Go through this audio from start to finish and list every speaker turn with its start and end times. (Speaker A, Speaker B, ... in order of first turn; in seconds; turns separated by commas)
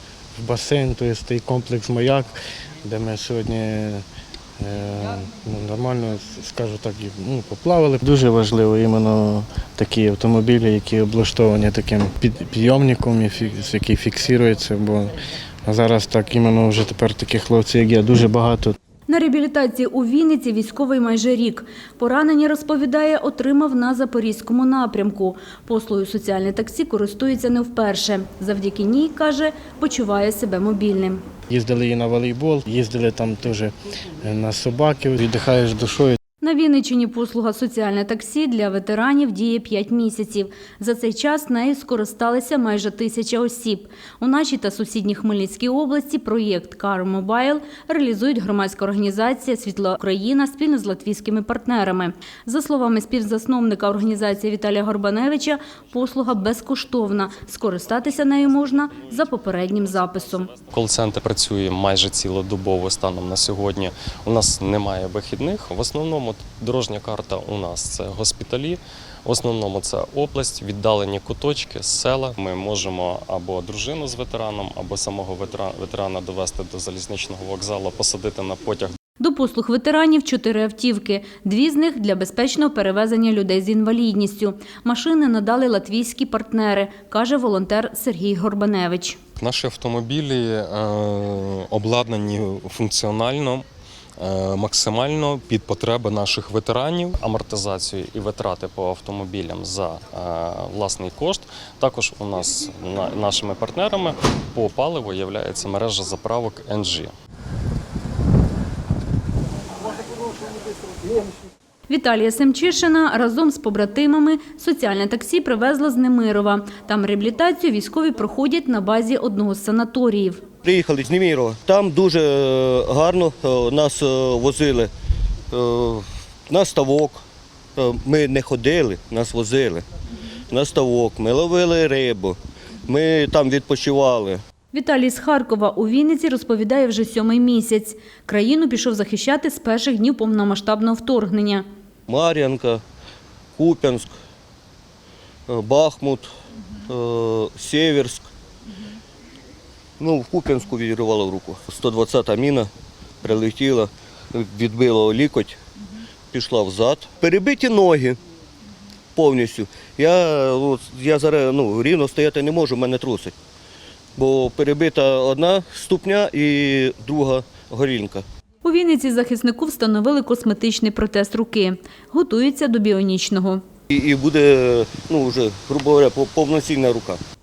Speaker A: 0.3-4.0, Speaker A: 4.6-18.8, Speaker B: 19.1-31.2, Speaker A: 31.5-36.2, Speaker B: 36.4-60.5, Speaker C: 60.6-78.9, Speaker B: 79.2-89.2, Speaker C: 89.4-93.6, Speaker C: 94.2-107.1, Speaker B: 111.9-120.4, Speaker D: 120.6-124.9, Speaker D: 125.5-127.2, Speaker D: 127.8-129.8, Speaker D: 130.5-134.4, Speaker B: 134.7-141.6, Speaker D: 142.1-142.8, Speaker D: 143.6-144.1, Speaker D: 145.5-146.3, Speaker D: 146.8-148.3, Speaker D: 150.0-152.7, Speaker D: 153.2-155.6, Speaker D: 156.3-158.2, Speaker D: 159.1-163.3, Speaker D: 164.2-168.2, Speaker B: 168.6-173.6, Speaker D: 173.9-177.2